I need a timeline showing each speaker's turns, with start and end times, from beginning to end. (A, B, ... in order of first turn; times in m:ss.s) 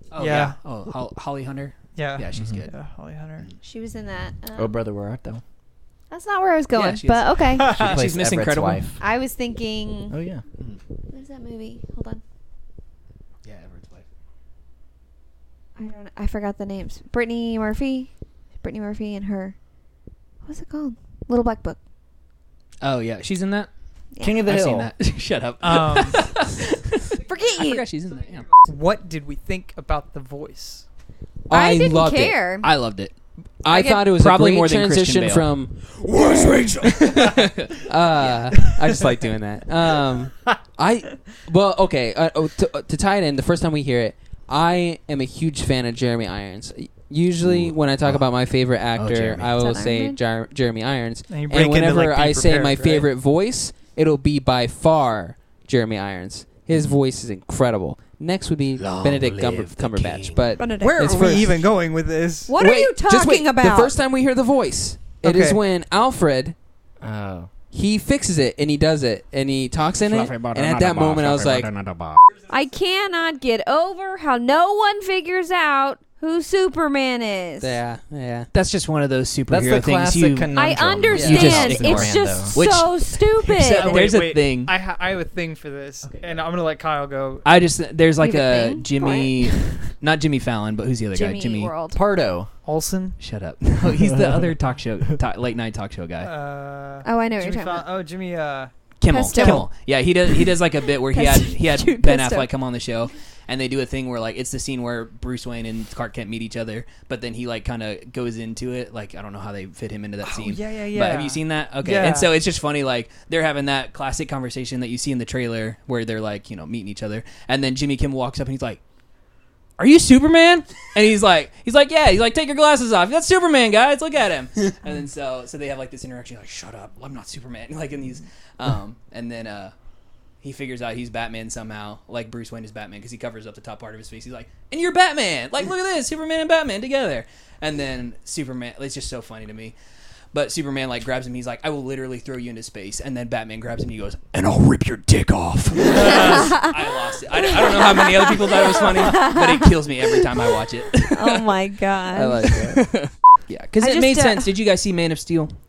0:00.1-0:02.7 A
0:00.2-0:00.6 B
0:02.0-0:03.5 B
0:03.6-0:04.7 C
0:04.6-0:05.4 D
0:06.1-0:07.8 C
0:06.7-0:08.9 A
0:07.6-0:08.0 B
0:07.7-0:09.0 D
0:09.0-0:10.2 C
0:10.1-0:10.4 D
0:11.1-0:12.2 C
0:13.4-0:14.1 A
0:15.8-0:18.1 C
0:18.6-0:19.6 C
0:20.4-0:21.8 C
0:22.8-0:23.7 A
0:24.1-0:24.4 C
0:24.2-0:24.9 D
0:24.4-0:28.5 A
0:25.6-0:26.2 B
0:27.2-0:27.8 C
0:28.6-0:30.8 B
0:31.5-0:32.7 C
0:31.5-0:33.1 A
0:31.5-0:32.0 E
0:33.6-1:01.6 E
0:33.7-0:34.0 C
0:33.8-0:38.4 A
0:49.0-0:49.5 A
0:49.6-0:50.2 C
0:51.3-0:53.1 B
0:58.8-1:00.4 A
1:00.6-1:01.6 C
1:00.8-1:02.6 B
1:02.5-1:03.9 C
1:02.6-1:06.5 E
1:05.2-1:05.6 B
1:07.0-1:07.5 D
1:07.7-1:11.7 E
1:10.0-1:12.2 A
1:12.5-1:17.8 C
1:17.6-1:18.5 E
1:18.5-1:20.5 A
1:19.5-1:22.6 D
1:20.5-1:24.0 C
1:21.1-1:24.7 A
1:21.1-1:21.7 E
1:23.6-1:27.5 B
1:27.4-1:31.7 A
1:28.2-1:29.8 C
1:31.1-1:32.0 C
1:31.9-1:32.5 D
1:32.6-1:33.2 B
1:33.2-1:36.3 A
1:33.9-1:34.3 D
1:36.2-1:38.7 B
1:37.0-1:37.8 C
1:39.0-1:58.8 A
1:39.1-1:39.7 C
1:39.3-1:39.6 B
1:41.1-1:42.5 C
1:50.2-1:52.3 B
1:59.8-2:09.7 A
2:10.4-2:19.7 A
2:20.3-2:31.5 A
2:25.9-2:26.4 B
2:25.9-2:32.6 C
2:32.1-2:32.9 E
2:32.5-2:35.5 A
2:33.8-2:34.5 C